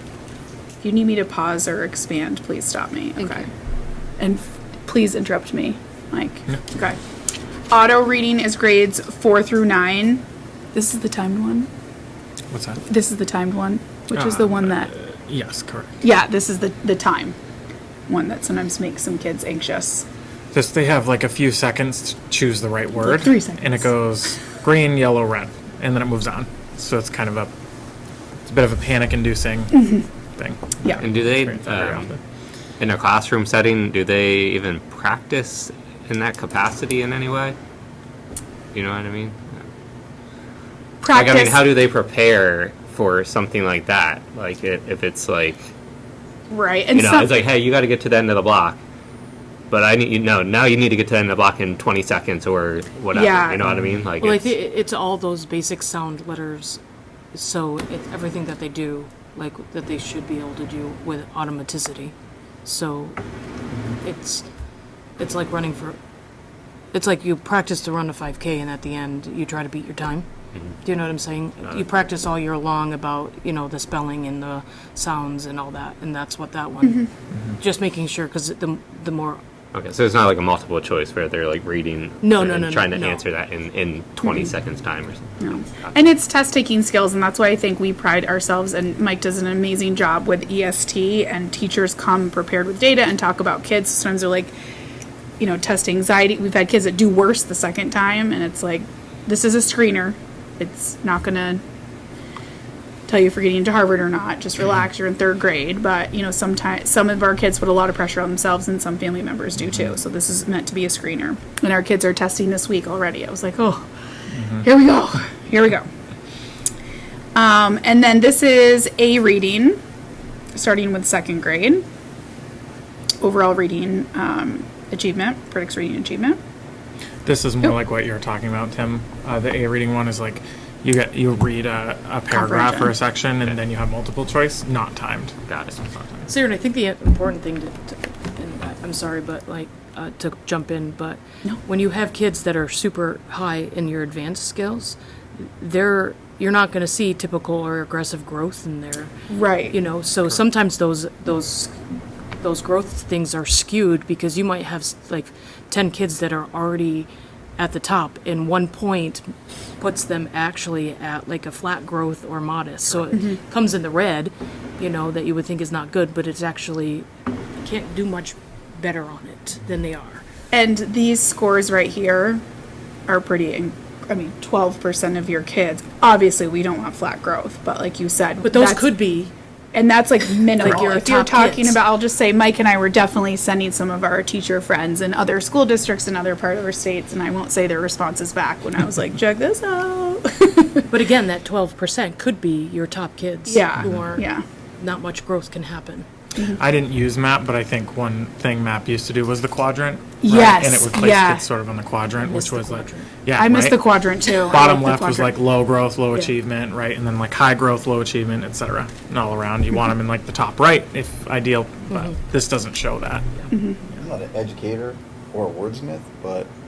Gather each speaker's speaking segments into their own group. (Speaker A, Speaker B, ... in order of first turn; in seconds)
Speaker A: 0.8-3.5, 4.2-7.0, 7.7-11.7, 12.9-14.9, 16.0-17.4, 18.1-20.1, 22.9-23.9, 29.7-30.0, 41.0-41.6, 46.5-47.3, 53.1-53.6, 85.4-94.5, 95.4-101.6, 103.1-113.9, 114.5-115.9, 117.3-119.8, 120.5-121.8, 123.2-126.4, 132.3-132.9, 149.3-149.8, 163.1-163.4, 170.5-172.4, 173.1-178.9, 179.7-190.9, 193.5-194.4, 200.2-201.5, 203.4-205.4, 213.5-213.8
Speaker B: 12.5-12.8, 14.1-15.9, 20.5-27.5, 28.4-32.2, 114.3-114.6, 127.3-136.3, 196.4-213.5
Speaker C: 31.0-32.1, 32.8-37.6, 38.7-39.7, 41.1-45.7, 46.9-48.8, 49.7-54.5, 79.7-86.1, 135.5-135.8
Speaker D: 54.2-56.8, 57.3-62.1, 62.6-63.2, 64.0-64.4, 65.2-66.0, 66.9-70.2, 70.8-79.4, 82.2-83.2, 136.3-149.1, 149.7-151.8, 152.4-159.3, 159.8-167.1, 167.6-170.2, 178.4-179.3, 180.6-181.8, 190.9-196.1, 202.2-203.1
Speaker E: 214.0-216.5